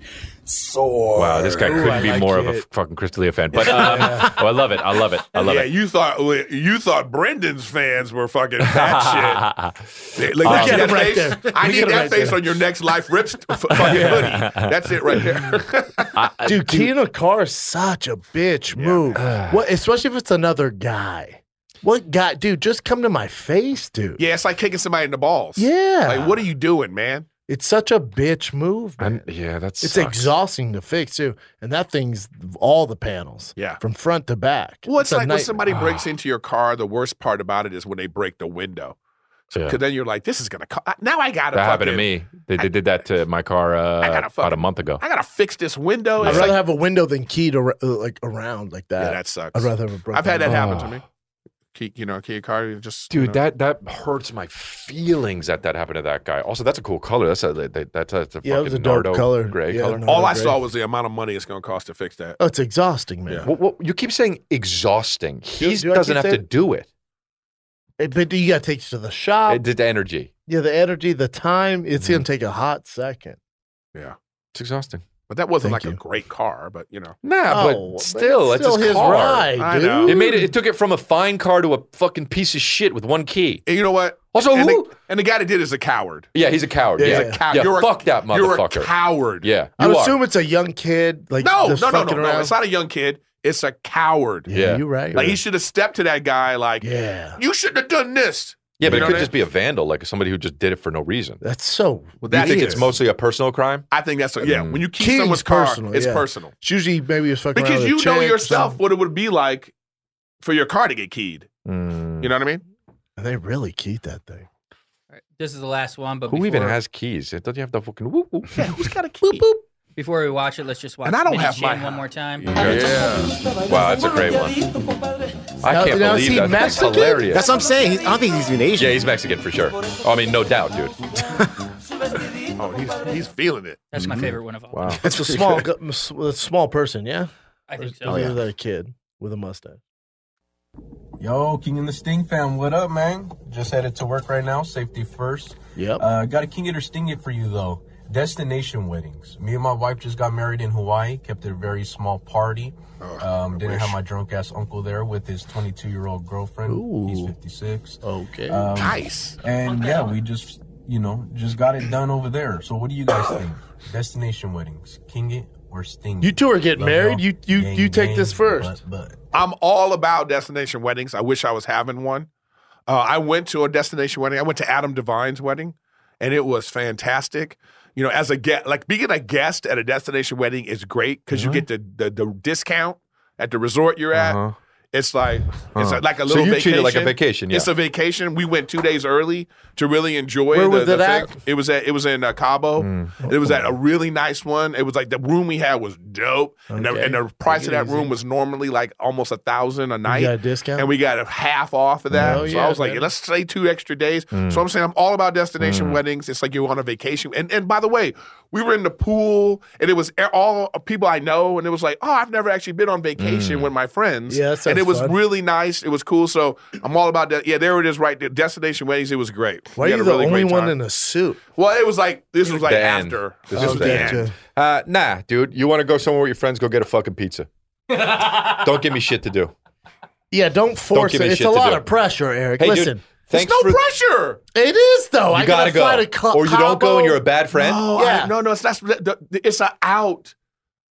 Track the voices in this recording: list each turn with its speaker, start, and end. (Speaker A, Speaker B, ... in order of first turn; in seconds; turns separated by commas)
Speaker A: 0.5-2.0, Speaker B: 1.1-5.7, Speaker C: 1.6-2.6, Speaker C: 3.5-4.4, Speaker D: 5.3-9.4, Speaker B: 8.6-11.0, Speaker D: 10.1-16.1, Speaker C: 10.4-12.4, Speaker C: 13.7-14.4, Speaker B: 13.8-14.7, Speaker B: 16.1-16.9, Speaker C: 16.4-24.2, Speaker D: 18.7-19.3, Speaker B: 19.1-19.6, Speaker D: 24.2-27.3, Speaker C: 25.6-26.4, Speaker C: 27.5-29.2, Speaker B: 29.0-30.3, Speaker C: 29.8-35.6, Speaker D: 33.5-33.8, Speaker D: 34.9-39.0, Speaker B: 35.6-36.1, Speaker B: 39.5-39.8, Speaker D: 39.6-42.7, Speaker B: 41.5-45.0, Speaker D: 44.0-46.6, Speaker B: 46.2-46.5, Speaker C: 46.2-50.6, Speaker D: 49.0-51.0, Speaker B: 50.4-51.0, Speaker D: 51.7-53.4, Speaker B: 53.1-60.0, Speaker C: 58.4-60.6, Speaker D: 60.0-62.4, Speaker C: 62.4-63.5, Speaker B: 63.4-66.9, Speaker C: 65.6-66.4, Speaker C: 68.0-69.6, Speaker B: 69.5-70.3, Speaker C: 70.5-73.4, Speaker B: 72.0-72.2, Speaker B: 74.5-75.0, Speaker D: 75.3-77.2, Speaker C: 75.6-76.0, Speaker B: 77.2-79.5, Speaker C: 77.5-80.5, Speaker D: 79.6-80.2, Speaker B: 80.0-83.6, Speaker D: 83.7-86.3, Speaker B: 84.3-84.9, Speaker B: 86.3-90.2, Speaker C: 87.0-87.4, Speaker D: 87.0-89.5, Speaker C: 89.8-92.5, Speaker D: 91.4-94.5, Speaker C: 94.5-95.4, Speaker B: 94.5-95.3, Speaker D: 95.1-99.3, Speaker C: 96.8-97.4, Speaker B: 98.8-101.4, Speaker C: 98.8-99.3, Speaker C: 101.4-102.8, Speaker D: 102.2-102.8, Speaker B: 102.3-103.8, Speaker D: 103.9-106.5, Speaker B: 104.4-104.8, Speaker C: 105.0-108.8, Speaker D: 107.5-109.7, Speaker D: 110.4-111.5, Speaker B: 111.7-112.3, Speaker D: 112.2-112.6, Speaker C: 113.2-114.5, Speaker E: 115.1-116.8, Speaker B: 116.3-118.7, Speaker D: 118.5-119.6, Speaker E: 120.0-123.0, Speaker D: 121.0-122.0, Speaker B: 122.4-124.5, Speaker D: 122.6-123.0, Speaker B: 125.6-127.5, Speaker C: 125.7-127.3, Speaker A: 127.3-128.9, Speaker B: 128.8-131.0, Speaker D: 132.6-133.9, Speaker E: 133.9-134.9, Speaker B: 134.0-135.0, Speaker C: 135.0-139.8, Speaker E: 137.7-138.3, Speaker F: 141.2-169.2, Speaker C: 145.8-146.1, Speaker D: 153.0-154.0, Speaker C: 156.7-157.3, Speaker C: 158.0-158.7, Speaker D: 158.8-159.4, Speaker E: 159.7-160.0, Speaker C: 166.2-168.8, Speaker D: 169.3-172.3, Speaker D: 172.9-184.4, Speaker B: 181.3-181.7, Speaker B: 184.1-184.5, Speaker D: 184.9-220.8, Speaker B: 185.7-187.7, Speaker C: 190.5-191.3, Speaker B: 192.8-193.1, Speaker C: 193.2-193.6, Speaker C: 196.7-198.1, Speaker C: 200.1-200.9, Speaker C: 202.1-203.0, Speaker B: 202.1-202.5, Speaker B: 204.3-204.6, Speaker B: 205.6-206.0, Speaker B: 213.2-213.7, Speaker C: 214.3-215.2, Speaker C: 219.8-221.4, Speaker D: 221.5-224.3, Speaker B: 222.4-229.5, Speaker C: 223.5-224.3, Speaker C: 230.3-233.0, Speaker B: 230.9-231.8, Speaker B: 232.6-233.8, Speaker D: 233.3-234.4, Speaker C: 234.5-237.2, Speaker B: 235.3-237.8, Speaker D: 237.5-240.3, Speaker C: 237.9-238.3